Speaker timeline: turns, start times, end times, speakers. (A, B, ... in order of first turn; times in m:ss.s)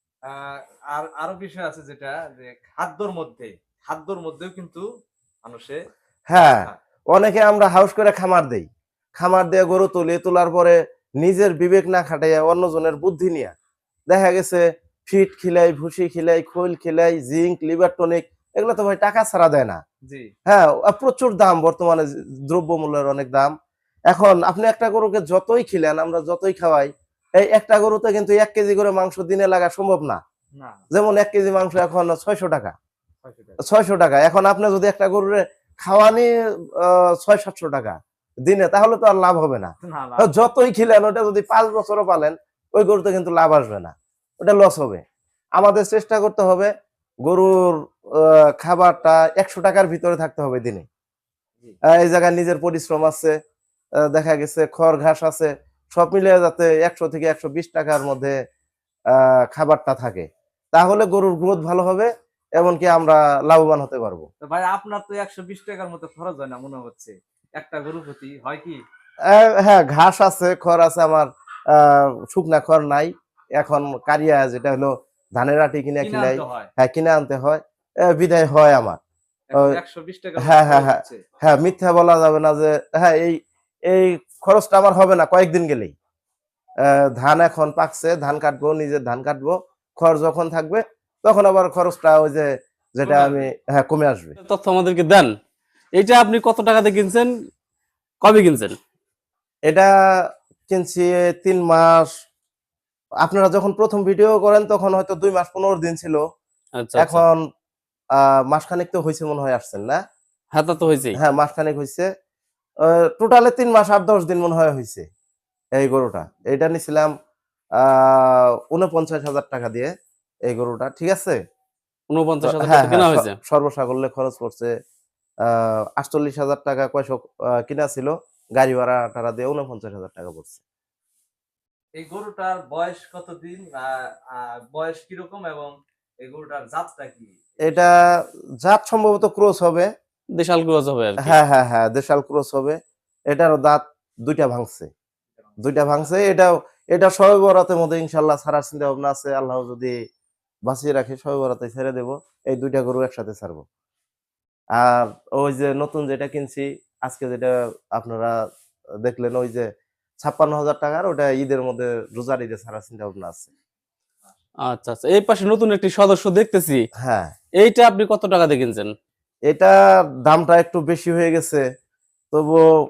0:00.2-0:04.9 A
0:05.4-0:05.8 A
0:06.3-0:13.5 B
0:06.3-0:06.8 A
0:14.1-0:19.8 B
0:20.0-0:20.3 A
0:20.5-0:23.5 B
0:24.1-0:30.2 B
0:30.6-0:30.8 A
0:30.9-0:32.7 B
0:33.2-0:33.6 A
0:33.6-0:45.0 B
0:39.8-0:40.5 A
0:45.6-0:46.7 B
0:47.2-0:50.8 B
0:51.9-0:53.3 B
0:54.1-0:58.4 B
0:59.1-1:04.3 B
1:04.4-1:08.8 A
1:09.3-1:19.0 B
1:16.0-1:16.7 A
1:19.5-1:21.2 A
1:20.4-1:25.9 B
1:26.8-1:34.3 B
1:33.0-1:33.5 A
1:34.4-1:35.3 C
1:36.0-1:37.3 C
1:38.2-1:38.8 C
1:40.7-1:42.1 B
1:43.2-1:46.2 B
1:46.8-1:47.2 C
1:47.0-1:47.4 B
1:48.2-1:50.0 B
1:50.5-1:51.2 C
1:51.2-1:52.1 B
1:52.9-1:55.0 B
1:55.8-1:57.1 B
1:57.8-1:59.9 B
2:00.5-2:01.4 B
2:02.1-2:03.4 C
2:02.4-2:04.7 B
2:05.5-2:10.6 B
2:12.0-2:17.4 A
2:17.6-2:19.9 B
2:20.3-2:21.4 C
2:21.2-2:22.8 B
2:23.3-2:24.9 B
2:25.6-2:29.9 B
2:30.7-2:33.6 B
2:34.8-2:38.3 B
2:39.0-2:39.7 B
2:40.2-2:43.5 B
2:44.6-2:46.8 C
2:47.0-2:47.3 B
2:47.6-2:48.9 C
2:49.5-2:51.6 B
2:52.3-2:52.6 B